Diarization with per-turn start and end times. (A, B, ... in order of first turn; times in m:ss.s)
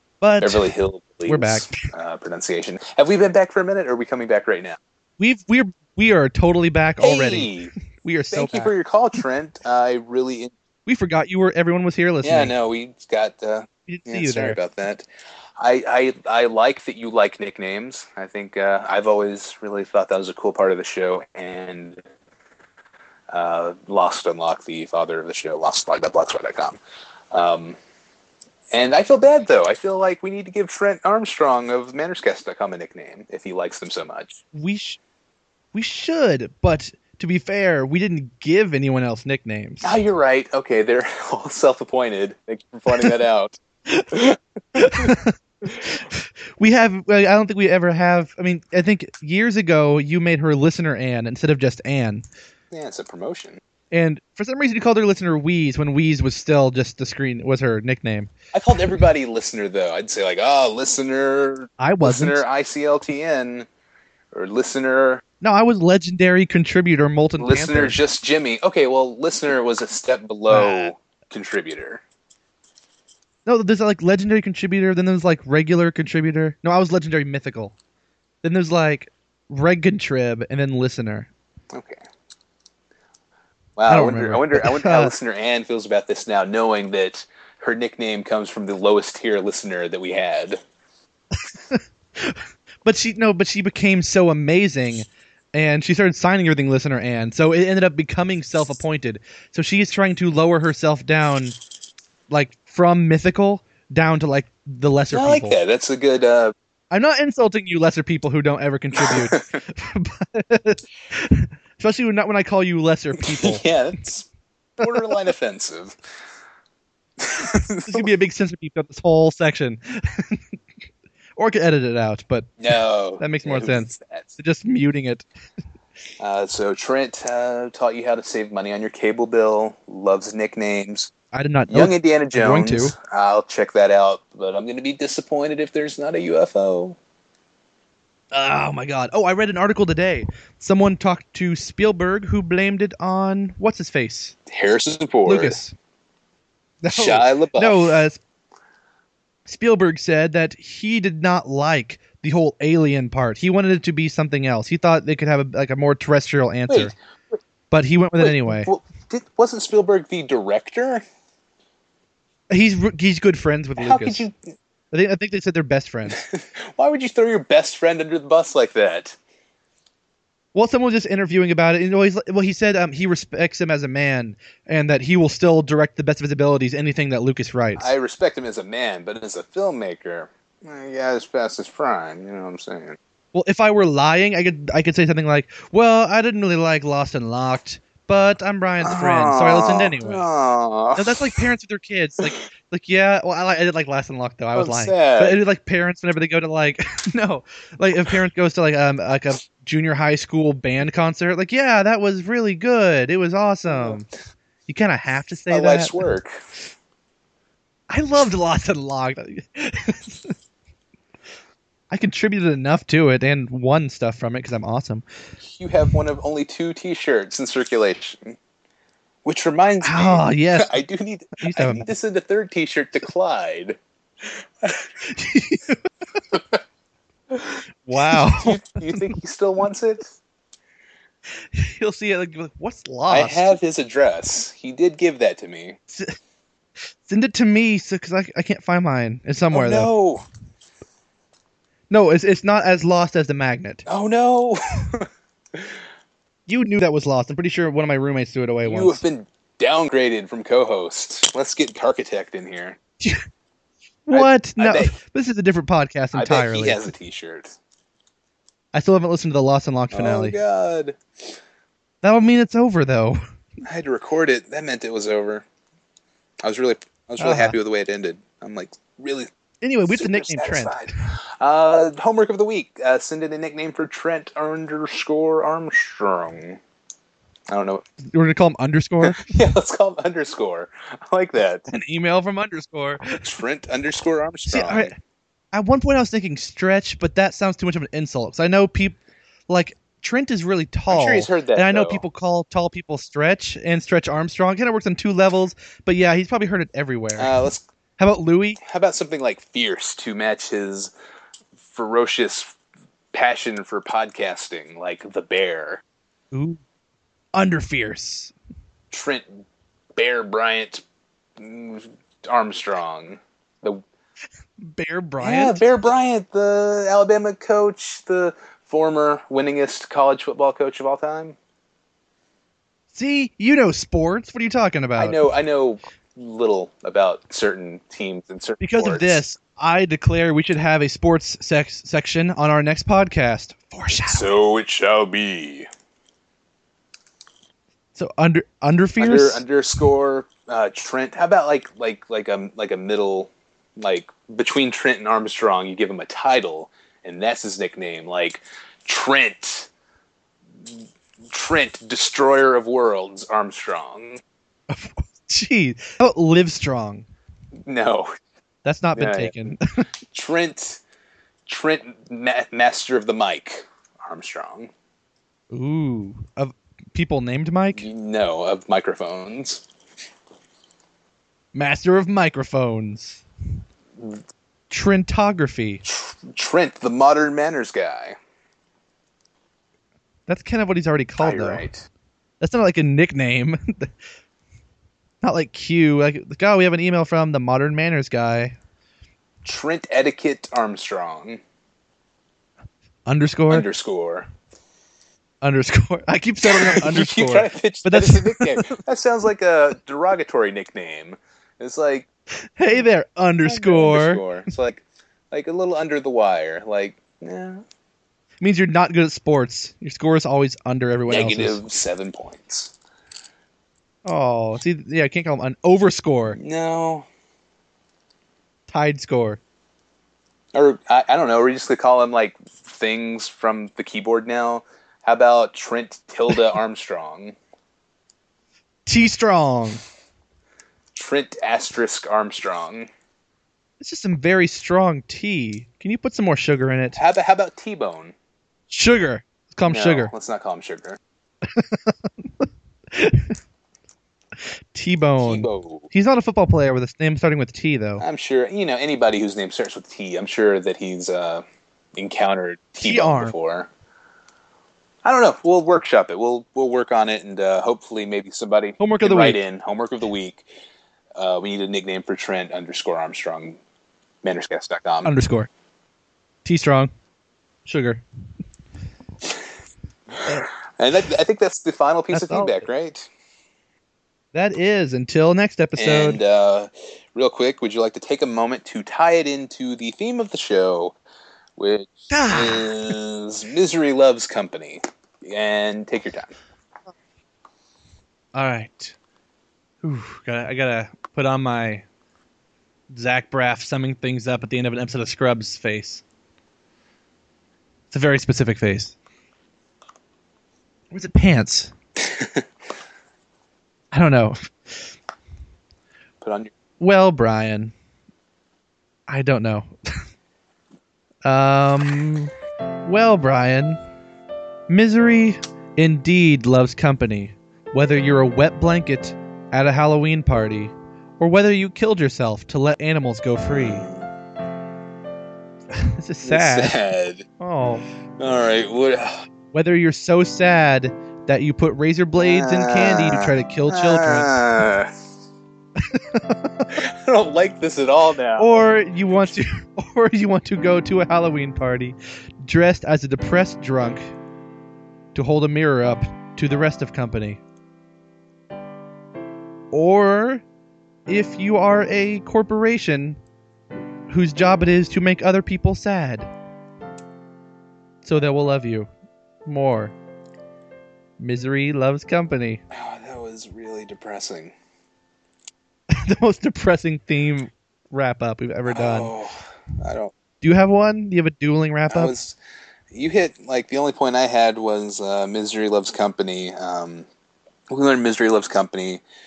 0:00.2-0:00.7 A
0:00.4-0:04.8 B
0:01.2-0:01.9 A
0:05.2-0:08.7 A
0:07.0-0:07.7 B
0:08.3-0:10.5 B
0:10.8-0:12.5 A
0:12.2-0:15.1 B
0:13.9-0:14.6 A
0:15.6-0:22.0 B
0:23.3-0:26.8 B
0:27.3-0:27.8 B
0:28.7-0:34.4 B
0:34.5-0:35.0 A
0:35.7-0:40.0 A
0:39.8-0:43.6 B
0:43.9-0:44.2 A
0:44.1-0:45.1 B
0:44.8-0:52.2 A
0:52.7-0:53.6 B
0:53.9-0:58.3 A
0:58.5-1:03.7 B
1:01.8-1:02.4 A
1:04.3-1:05.2 B
1:05.4-1:08.0 A
1:07.4-1:12.0 B
1:10.5-1:10.9 A
1:13.4-1:17.7 A
1:18.4-1:21.3 A
1:21.7-1:22.0 B
1:23.8-1:30.6 B
1:23.9-1:25.1 A
1:31.7-1:41.6 A
1:42.3-1:45.6 A
1:45.1-1:46.5 B
1:46.9-1:53.6 A
1:49.0-1:49.6 B
1:53.2-1:56.0 B
1:57.2-1:58.1 B
1:57.8-2:00.6 A
2:01.4-2:02.5 A
2:02.6-2:04.3 B
2:03.2-2:05.2 A
2:06.2-2:11.1 B
2:11.3-2:12.9 A
2:11.7-2:17.0 B
2:18.3-2:24.3 A
2:24.5-2:25.6 B
2:25.2-2:25.7 A
2:26.8-2:28.2 A
2:26.9-2:28.0 B
2:29.4-2:36.9 A
2:36.7-2:37.4 B
2:37.7-2:38.7 A
2:38.2-2:41.0 B
2:42.5-2:44.3 A
2:43.8-2:44.4 B
2:44.9-2:46.2 A
2:46.1-2:49.2 B
2:50.5-2:57.9 A
2:57.8-3:03.0 B
3:03.3-3:10.2 A
3:08.8-3:11.4 B
3:11.0-3:24.1 A
3:14.5-3:15.4 B
3:23.7-3:24.0 B
3:24.7-3:26.0 A
3:25.5-3:26.4 B
3:27.9-3:30.3 A
3:31.9-3:35.0 A
3:35.4-3:38.4 B
3:39.2-3:44.9 B
3:39.8-3:40.8 A
3:41.4-3:41.9 A
3:45.0-3:45.8 A
3:46.3-3:46.6 B
3:47.8-3:49.1 A
3:47.9-3:50.1 B
3:51.5-3:53.6 A
3:53.1-3:55.8 B
3:57.0-3:59.9 A
3:59.5-4:00.2 B
4:01.9-4:03.8 A
4:03.8-4:05.8 B
4:06.5-4:09.0 A
4:08.6-4:12.8 B
4:14.1-4:16.9 A
4:14.1-4:14.9 B
4:16.1-4:17.5 B
4:18.7-4:20.4 A
4:19.9-4:21.0 B
4:22.0-4:23.2 A
4:23.6-4:25.4 B
4:26.4-4:29.3 B
4:27.2-4:27.6 A
4:29.6-4:31.0 A
4:29.9-4:36.6 B
4:37.5-4:37.8 B
4:38.0-4:39.3 A
4:39.0-4:41.6 B
4:41.7-4:43.2 A
4:43.2-4:44.9 B
4:44.5-4:45.0 A
4:45.5-4:49.0 A
4:49.5-4:57.4 A
4:50.9-4:52.0 B
4:57.2-4:57.6 B
4:58.0-4:58.6 A
4:58.6-5:00.9 B
5:01.7-5:02.5 B
5:03.1-5:05.8 B
5:06.3-5:06.6 A
5:07.3-5:08.3 A
5:08.9-5:09.4 B
5:10.0-5:10.8 B
5:11.4-5:13.8 B
5:14.6-5:15.6 A
5:15.2-5:21.4 B
5:22.9-5:25.2 A
5:25.0-5:29.2 B
5:28.6-5:34.3 A
5:34.1-5:35.7 B
5:37.9-5:39.4 A
5:39.0-5:49.7 B
5:50.6-5:54.2 B
5:54.7-5:57.0 A
5:57.6-5:58.1 B
5:58.6-5:59.8 A
5:59.0-5:59.5 B
6:00.1-6:00.8 B
6:01.5-6:04.7 B
6:05.5-6:07.9 A
6:07.7-6:09.6 B
6:11.5-6:13.2 A
6:14.0-6:14.2 B
6:14.7-6:15.8 A
6:15.8-6:18.2 B
6:20.3-6:21.6 A
6:21.2-6:21.9 B
6:22.4-6:23.9 A
6:25.2-6:28.5 A
6:29.4-6:31.4 B
6:33.0-6:33.6 A
6:33.5-6:34.3 B
6:35.4-6:38.8 A
6:36.4-6:42.1 B
6:42.6-6:44.2 A
6:43.4-6:47.6 B
6:48.4-6:51.6 A
6:51.1-6:52.7 B
6:54.0-6:56.4 A
6:56.4-6:57.1 B
6:58.7-6:59.4 A
7:00.5-7:07.4 B
7:08.8-7:09.8 A
7:10.9-7:12.9 B
7:13.8-7:17.0 A
7:16.9-7:18.1 B
7:18.7-7:20.1 A
7:19.7-7:21.0 B
7:21.5-7:23.4 A
7:24.7-7:28.0 A
7:25.2-7:25.9 B
7:28.0-7:31.4 B
7:32.0-7:33.7 B
7:32.8-7:33.3 A
7:35.0-7:40.4 B
7:38.8-7:39.4 A
7:41.2-7:43.6 B
7:44.2-7:45.1 B
7:45.0-7:45.5 A
7:46.4-7:46.9 A
7:47.6-7:48.0 A
7:50.2-7:53.1 B
7:52.1-7:52.6 A
7:54.3-7:56.2 A
7:55.8-8:01.0 B
8:01.6-8:06.3 B
8:02.1-8:02.9 A
8:08.3-8:09.0 A
8:09.8-8:11.8 A
8:12.9-8:16.0 A
8:17.9-8:18.9 A
8:20.9-8:21.7 A
8:22.0-8:22.4 B
8:23.9-8:24.4 A
8:26.2-8:26.5 B
8:26.8-8:27.7 A
8:29.1-8:29.7 A
8:31.2-8:32.3 A
8:32.8-8:33.8 A
8:34.7-8:43.8 A
8:43.5-8:44.1 B
8:45.7-8:46.8 A
8:46.2-8:47.2 B
8:47.4-8:47.8 A
8:48.2-8:49.2 B
8:49.5-8:54.4 A
8:52.2-8:54.9 B
8:55.8-8:56.7 A
8:56.7-8:58.5 B
8:58.4-9:04.1 A
9:05.1-9:07.4 A
9:09.7-9:10.4 A
9:11.1-9:13.2 A
9:14.1-9:16.3 A
9:18.0-9:18.9 A
9:19.4-9:19.9 A
9:21.2-9:22.6 A
9:22.7-9:24.5 B
9:25.9-9:29.1 A
9:28.7-9:30.1 B
9:30.4-9:32.1 A
9:31.9-9:32.4 B
9:32.9-9:37.1 B
9:37.7-9:39.0 B